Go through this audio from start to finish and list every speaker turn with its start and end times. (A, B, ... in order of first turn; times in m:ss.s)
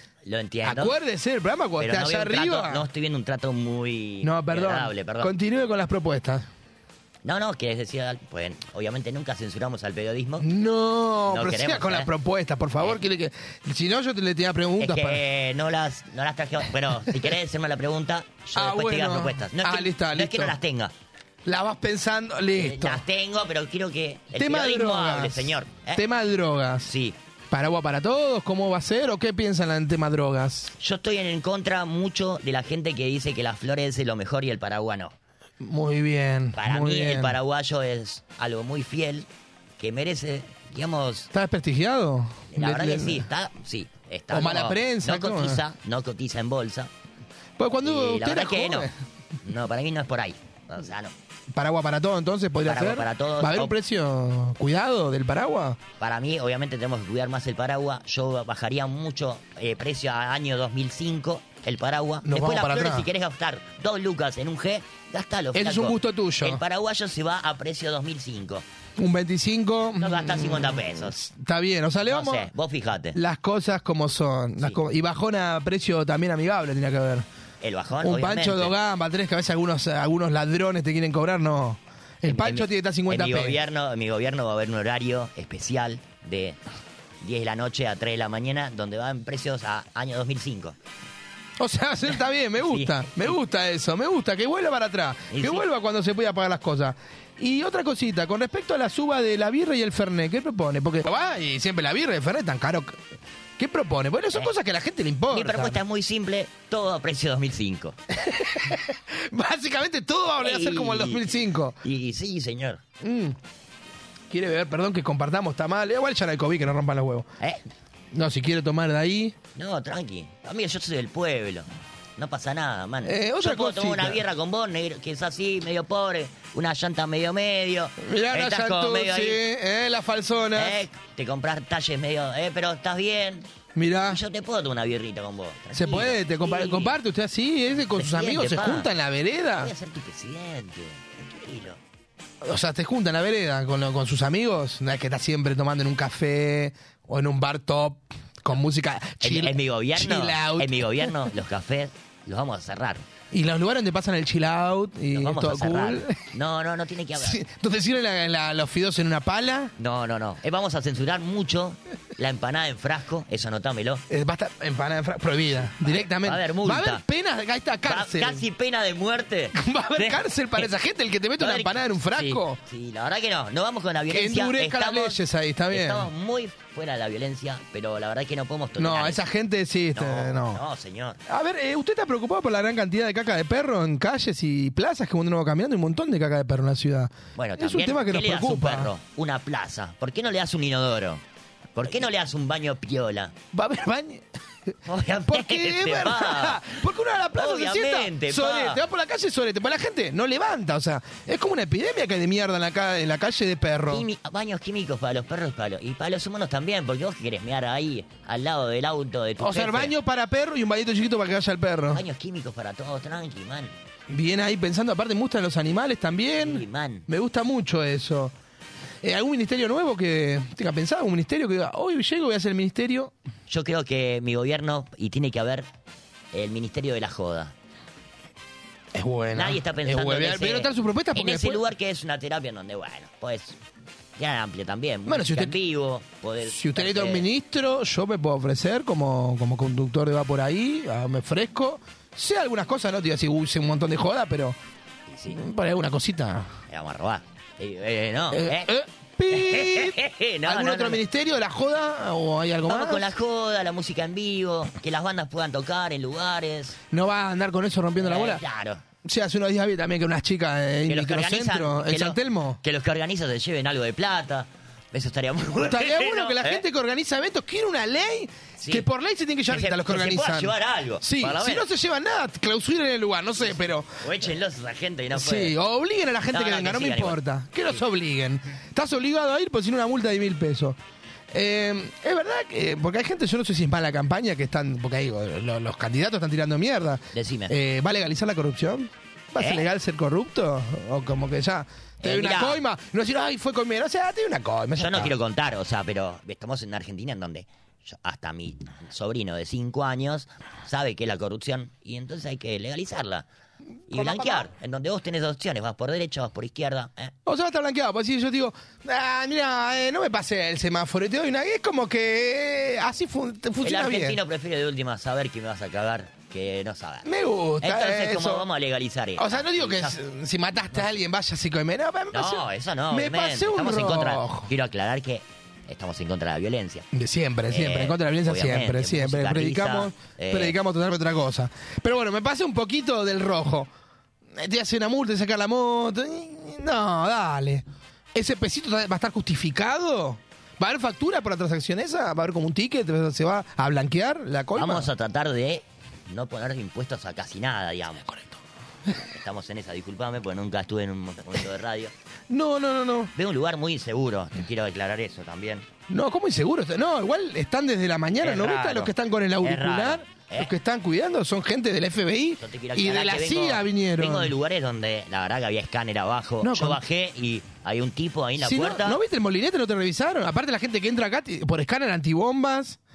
0:00.2-0:00.9 A
0:00.6-0:02.9 B
0:01.8-0:05.3 A
0:04.2-0:06.4 B
0:07.2-0:10.5 A
0:10.4-0:15.2 B
0:11.3-0:12.1 A
0:14.8-0:20.9 A
0:18.6-0:20.6 B
0:21.4-0:23.0 B
0:22.6-0:26.0 A
0:24.4-0:26.9 B
0:26.8-0:27.2 A
0:27.5-0:30.7 B
0:30.8-0:35.1 A
0:35.6-0:37.4 B
0:36.5-0:39.3 A
0:39.8-0:41.3 A
0:41.3-0:43.3 B
0:42.5-0:46.9 A
0:44.3-0:45.6 B
0:47.6-0:48.9 B
0:47.8-0:48.9 A
0:49.4-0:51.1 A
0:51.5-0:55.8 B
0:52.6-0:53.7 A
0:56.0-1:08.6 A
1:02.2-1:03.1 B
1:05.5-1:06.6 B
1:09.0-1:12.5 B
1:10.0-1:11.2 A
1:12.1-1:13.2 A
1:13.1-1:17.2 B
1:14.6-1:14.8 A
1:17.6-1:18.8 A
1:18.0-1:23.6 B
1:22.2-1:26.6 A
1:27.2-1:30.8 A
1:31.6-1:43.0 B
1:32.6-1:33.1 A
1:35.3-1:35.7 A
1:43.6-1:45.8 B
1:45.3-1:48.0 A
1:48.1-1:51.8 B
1:50.4-1:52.8 A
1:53.0-1:53.4 B
1:54.3-1:57.3 B
1:58.1-1:59.3 B
1:59.6-2:09.4 A
2:03.0-2:04.2 B
2:08.0-2:10.8 B
2:10.6-2:13.5 A
2:13.7-2:14.2 B
2:14.1-2:17.0 A
2:15.7-2:19.7 B
2:17.9-2:18.9 A
2:19.6-2:21.8 A
2:22.4-2:31.1 B
2:29.2-2:33.1 A
2:33.3-2:36.2 B
2:35.1-2:37.4 A
2:37.2-2:39.7 B
2:39.8-2:44.0 A
2:44.1-2:48.4 B
2:45.6-2:47.0 A
2:47.8-2:50.7 A
2:49.5-2:52.6 B
2:51.4-2:55.2 A
2:54.1-2:56.1 B
2:55.7-2:59.3 A
2:58.8-3:00.6 B
2:59.9-3:01.2 A
3:01.3-3:08.9 B
3:07.3-3:11.2 A
3:11.7-3:13.3 A
3:13.5-3:14.2 B
3:14.8-3:16.8 A
3:15.3-3:24.0 B
3:17.3-3:18.8 A
3:23.9-3:29.9 A
3:29.4-3:32.0 B
3:31.9-3:33.7 A
3:34.1-3:38.3 B
3:36.4-3:37.1 A
3:39.0-3:43.1 B
3:43.5-3:45.7 A
3:46.3-3:47.5 A
3:48.9-3:51.6 B
3:49.3-3:53.6 A
3:54.2-3:57.3 A
3:55.1-3:55.6 B
3:56.4-4:04.6 B
4:05.1-4:05.4 A
4:05.3-4:06.5 B
4:06.7-4:08.7 A
4:08.3-4:13.0 B
4:09.3-4:11.0 A
4:12.7-4:16.8 A
4:16.9-4:18.4 B
4:18.0-4:18.8 A
4:19.0-4:22.6 B
4:20.9-4:26.6 A
4:25.6-4:34.0 B
4:28.6-4:28.9 A
4:29.5-4:31.7 A
4:33.4-4:35.6 A
4:35.1-4:40.8 B
4:36.3-4:37.8 A
4:41.3-4:55.1 B
4:47.1-4:47.5 A
4:49.4-4:49.7 A
4:52.0-4:52.6 A
4:54.8-5:03.3 A
5:03.9-5:07.1 A
5:03.9-5:04.4 B
5:07.3-5:14.2 B
5:13.6-5:20.0 A
5:17.0-5:18.5 B
5:19.2-5:24.5 B
5:22.1-5:26.8 A
5:26.9-5:33.7 B
5:27.5-5:30.6 A
5:34.3-5:44.9 B
5:44.6-5:48.1 A
5:49.1-5:51.9 A
5:52.3-5:53.1 B
5:53.2-5:55.7 A
5:55.9-6:04.3 B
5:58.2-6:00.5 A
6:02.4-6:09.0 A
6:06.4-6:06.8 B
6:08.4-6:12.8 B